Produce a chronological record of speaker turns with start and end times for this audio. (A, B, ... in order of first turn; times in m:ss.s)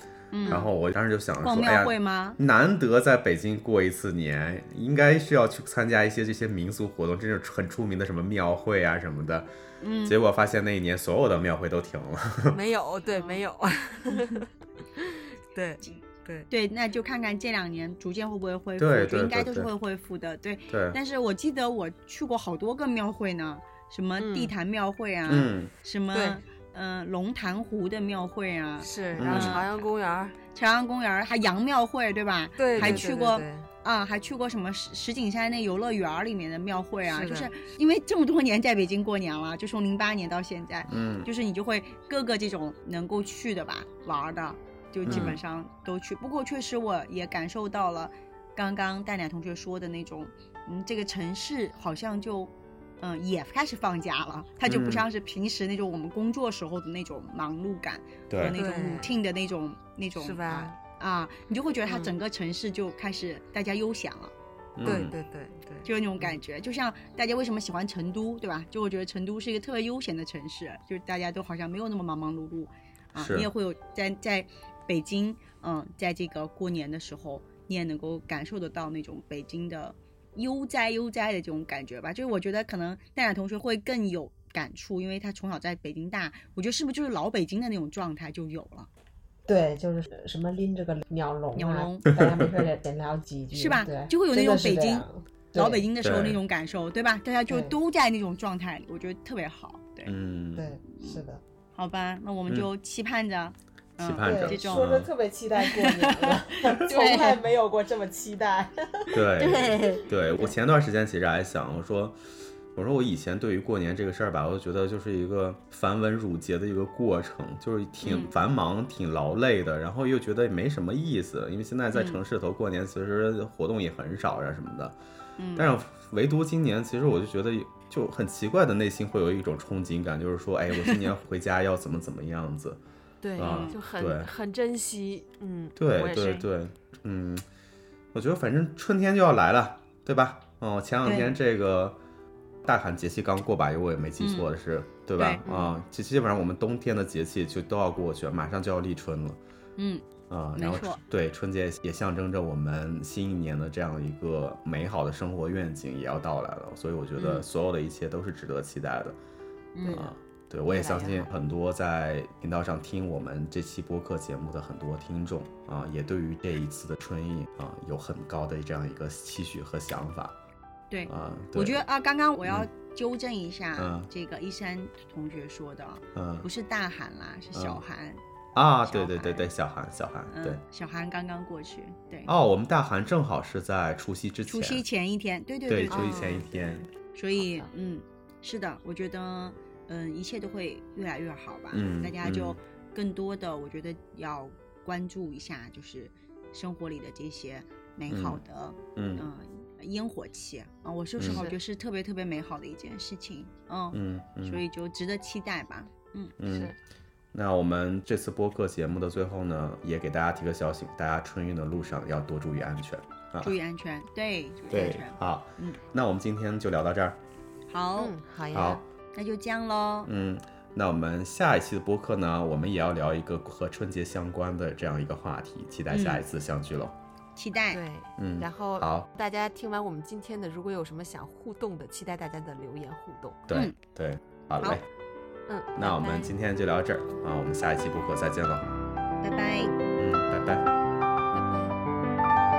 0:00.3-0:00.7 A
0:00.5-0:09.5 B
0:01.4-0:02.4 A
0:09.8-0:10.2 A
0:10.0-0:12.6 B
0:12.5-0:16.5 C
0:13.1-0:13.4 A
0:14.1-0:14.4 A
0:15.8-0:29.7 A
0:18.8-0:19.7 B
0:20.7-0:21.0 B
0:24.2-0:24.5 C
0:25.3-0:25.7 B
0:26.1-0:26.4 C
0:28.8-0:30.4 C
0:29.2-0:29.6 B
0:30.5-1:04.3 A
0:32.6-0:33.7 C
0:32.8-0:33.0 B
0:37.1-0:37.5 C
0:40.9-0:41.3 B
0:45.1-0:45.4 C
0:45.1-0:45.4 B
0:54.7-0:55.0 B
0:58.3-0:58.6 B
0:58.5-0:59.2 C
1:00.2-1:00.8 C
1:01.9-1:02.1 C
1:04.8-1:05.1 B
1:04.8-1:06.4 C
1:05.8-1:28.9 A
1:13.2-1:13.5 B
1:29.5-1:35.9 D
1:31.6-1:32.1 A
1:32.1-1:32.7 B
1:33.5-1:40.2 A
1:36.0-1:36.4 B
1:37.5-1:37.7 D
1:40.0-1:40.8 B
1:40.6-1:41.4 D
1:40.8-1:41.2 A
1:41.8-1:45.0 A
1:44.0-1:45.1 B
1:44.2-1:50.1 D
1:45.6-1:47.4 A
1:47.0-1:47.3 C
1:49.1-1:52.2 B
1:52.8-2:05.0 B
1:58.0-1:58.3 A
2:01.9-2:02.2 A
2:05.4-2:05.7 A
2:05.6-2:12.8 B
2:13.2-2:16.5 C
2:13.4-2:14.3 B
2:13.4-2:13.8 A
2:15.8-2:17.4 B
2:18.1-2:22.0 B
2:21.0-2:21.4 A
2:22.6-2:29.4 B
2:24.2-2:24.5 A
2:25.2-2:25.4 A
2:25.5-2:25.8 C
2:29.8-2:31.0 A
2:30.3-2:39.2 B
2:37.2-2:37.4 A
2:39.8-2:40.1 A
2:39.8-2:40.1 C
2:39.9-2:50.4 B
2:40.7-2:41.3 C
2:50.9-2:58.2 A
2:51.1-2:51.8 B
2:53.8-2:54.1 B
2:56.2-2:56.5 B
2:57.5-2:57.8 B
2:58.6-3:00.6 B
2:58.8-2:59.5 A
3:00.3-3:02.3 A
3:02.3-3:04.8 B
3:04.5-3:06.6 A
3:05.7-3:06.9 B
3:05.9-3:06.5 C
3:07.1-3:26.4 A
3:07.4-3:07.7 C
3:11.7-3:12.6 B
3:18.1-3:18.4 B
3:19.0-3:19.2 B
3:21.2-3:21.5 B
3:21.3-3:21.5 C
3:23.9-3:24.6 B
3:26.4-3:26.7 B
3:26.4-3:26.8 C
3:27.3-3:33.6 B
3:33.4-3:35.8 A
3:34.7-3:37.2 B
3:37.7-3:38.2 A
3:38.0-3:38.8 C
3:38.5-3:38.8 B
3:39.1-3:40.1 A
3:40.1-3:47.0 B
3:45.9-3:46.2 A
3:47.4-3:47.8 A
3:47.7-3:53.4 C
3:48.2-3:49.1 B
3:53.5-3:54.8 B
3:55.5-3:56.3 C
3:55.8-3:58.7 B
3:59.2-3:59.7 A
4:00.0-4:00.7 B
4:01.3-4:01.8 C